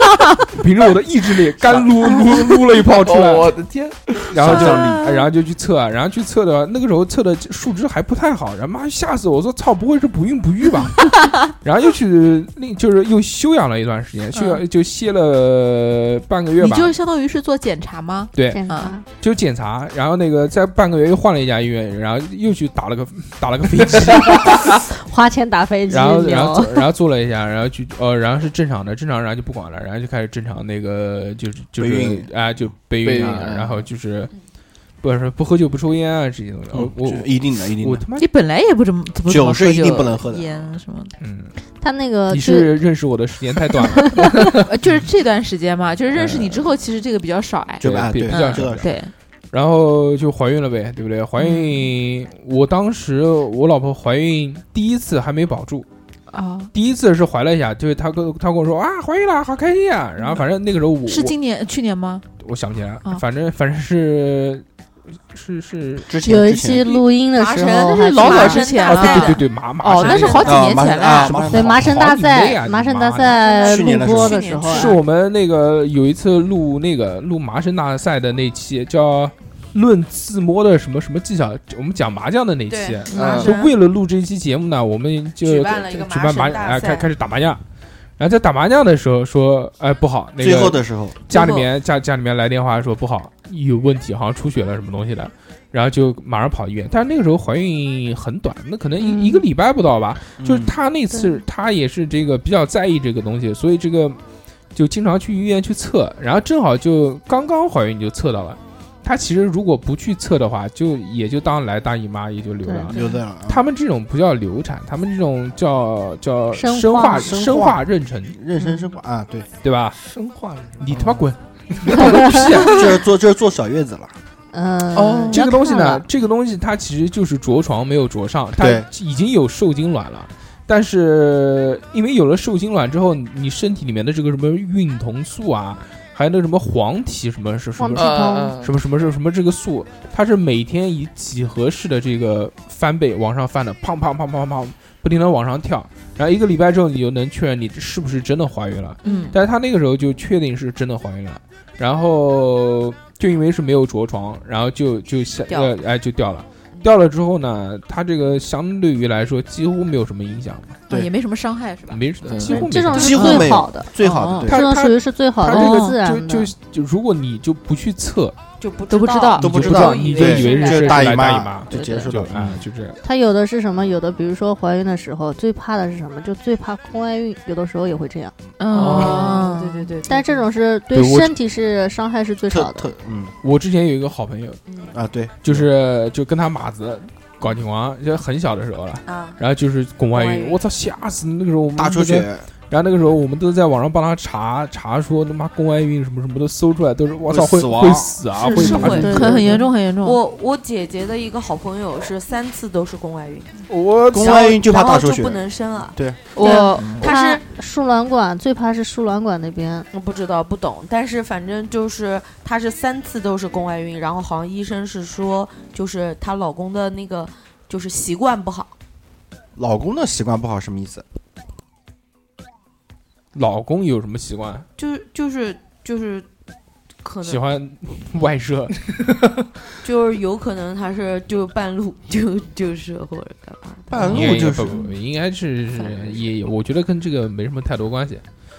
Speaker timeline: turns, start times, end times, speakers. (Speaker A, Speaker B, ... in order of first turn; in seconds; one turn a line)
Speaker A: 0.3-3.6
Speaker B: 1.7-4.8
Speaker A: 4.3-16.9
Speaker C: 4.4-5.0
Speaker D: 4.7-5.2
Speaker E: 14.3-14.6
Speaker E: 16.6-18.9
Speaker A: 18.3-24.6
Speaker F: 18.4-19.0
Speaker F: 24.3-26.9
Speaker A: 25.9-34.3
Speaker C: 31.8-32.3
Speaker B: 33.0-33.8
Speaker A: 35.0-38.3
Speaker C: 36.7-38.0
Speaker E: 38.1-41.1
Speaker C: 39.2-40.5
Speaker A: 41.2-41.5
Speaker F: 41.8-42.7
Speaker A: 42.3-44.4
Speaker F: 44.2-44.5
Speaker E: 44.5-49.1
Speaker A: 46.1-46.6
Speaker C: 47.8-48.9
Speaker A: 47.8-48.9
Speaker A: 49.5-55.9
Speaker E: 51.4-51.9
Speaker E: 56.3-56.7
Speaker A: 56.7-61.4
Speaker E: 61.0-62.2
Speaker A: 62.4-64.6
Speaker A: 65.3-66.1
Speaker C: 66.1-67.0
Speaker F: 66.2-68.7
Speaker D: 67.3-69.4
Speaker E: 67.8-71.5
Speaker A: 68.8-73.4
Speaker D: 70.0-70.6
Speaker C: 70.4-72.0
Speaker F: 71.5-75.0
Speaker D: 73.2-75.0
Speaker C: 73.6-74.5
Speaker A: 74.7-87.6
Speaker D: 82.7-83.7
Speaker B: 83.1-83.5
Speaker D: 85.4-87.1
Speaker A: 88.2-104.2
Speaker C: 90.4-91.2
Speaker D: 91.3-91.6
Speaker F: 99.0-99.4
Speaker C: 100.4-100.7
Speaker A: 104.7-118.3
Speaker F: 112.6-113.2
Speaker C: 112.9-113.6
Speaker F: 116.5-117.4
Speaker C: 117.1-119.5
Speaker A: 119.6-120.0
Speaker B: 120.0-121.2
Speaker A: 120.8-122.9
Speaker F: 122.0-122.5
Speaker C: 122.6-124.1
Speaker F: 124.5-126.0
Speaker B: 124.9-125.4
Speaker A: 125.3-160.8
Speaker C: 128.6-128.9
Speaker F: 137.8-138.6
Speaker B: 137.9-138.7
Speaker E: 149.0-149.4
Speaker D: 149.1-149.3
Speaker E: 160.9-162.0
Speaker A: 161.9-163.2
Speaker B: 162.2-162.6
Speaker F: 162.4-166.5
Speaker C: 162.9-164.6
Speaker D: 162.9-163.3
Speaker E: 163.1-164.5
Speaker A: 164.5-168.3
Speaker E: 165.5-165.9
Speaker D: 168.6-171.1
Speaker E: 168.9-170.3
Speaker A: 169.4-173.0
Speaker C: 169.4-172.6
Speaker E: 171.7-172.1
Speaker F: 173.0-178.3
Speaker E: 178.6-179.9
Speaker B: 178.7-179.4
Speaker D: 178.7-180.5
Speaker F: 180.0-182.9
Speaker A: 180.9-181.3
Speaker C: 182.5-183.3
Speaker A: 183.4-184.6
Speaker D: 184.7-184.9
Speaker C: 184.9-185.7
Speaker A: 185.4-199.2
Speaker D: 189.0-189.4
Speaker D: 190.1-190.6
Speaker C: 191.8-192.5
Speaker C: 197.3-198.2
Speaker D: 198.3-203.6
Speaker B: 198.6-199.0
Speaker F: 198.9-199.6
Speaker E: 199.0-200.2
Speaker A: 203.7-204.4
Speaker C: 204.1-206.2
Speaker D: 204.2-207.4
Speaker E: 206.3-207.1
Speaker F: 207.0-209.9
Speaker D: 209.9-218.7
Speaker C: 219.6-221.0
Speaker A: 223.3-224.7
Speaker D: 224.8-226.3
Speaker D: 227.0-227.4
Speaker A: 227.2-228.8
Speaker D: 229.8-234.4
Speaker C: 233.9-234.8
Speaker A: 234.0-238.2
Speaker D: 235.9-236.1